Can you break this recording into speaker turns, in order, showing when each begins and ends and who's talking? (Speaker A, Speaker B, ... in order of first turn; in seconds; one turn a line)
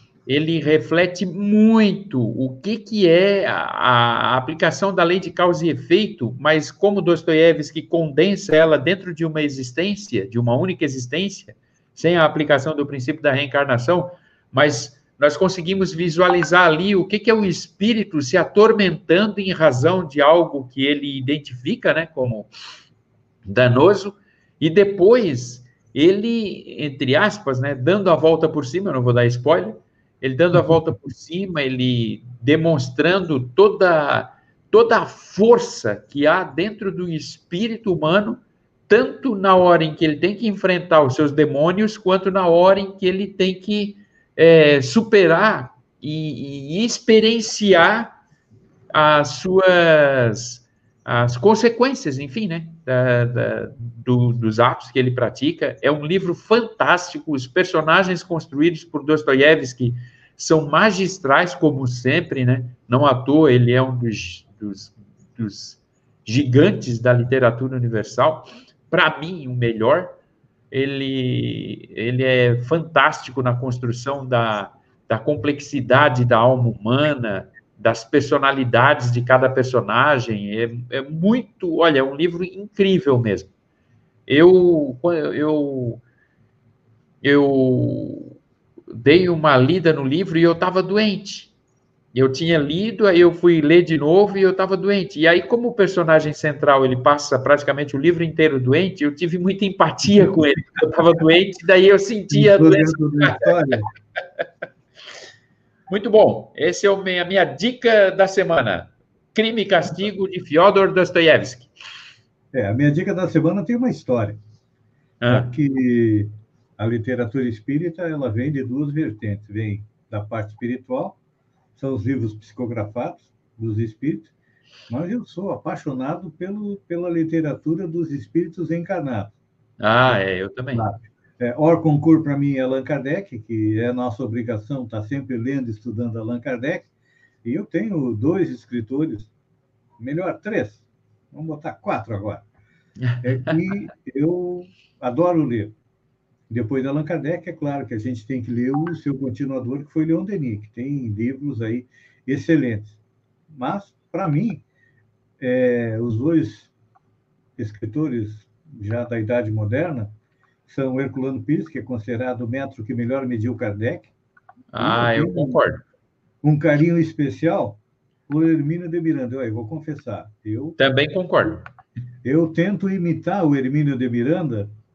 Speaker A: 0.2-22.5
Speaker A: 23.4-48.1
Speaker A: 48.9-70.2
Speaker A: 70.7-83.5
Speaker A: 84.3-86.0
Speaker A: 87.2-88.4
Speaker A: 88.9-91.5
Speaker A: 92.1-103.5
Speaker B: 102.3-103.9
Speaker A: 105.9-111.7
Speaker B: 112.5-114.4
Speaker A: 115.2-115.5
Speaker B: 115.3-121.2
Speaker B: 121.8-124.3
Speaker B: 124.9-129.3
Speaker A: 129.8-130.8
Speaker B: 130.7-136.9
Speaker B: 137.4-139.3
Speaker B: 140.0-142.4
Speaker A: 143.0-143.6
Speaker B: 143.2-145.7
Speaker B: 146.5-153.0
Speaker B: 153.5-154.6
Speaker B: 155.4-156.7
Speaker B: 157.6-160.1
Speaker B: 160.7-164.1
Speaker A: 164.7-165.8
Speaker B: 164.8-165.6
Speaker B: 166.4-170.8
Speaker A: 170.8-171.7
Speaker B: 172.2-174.7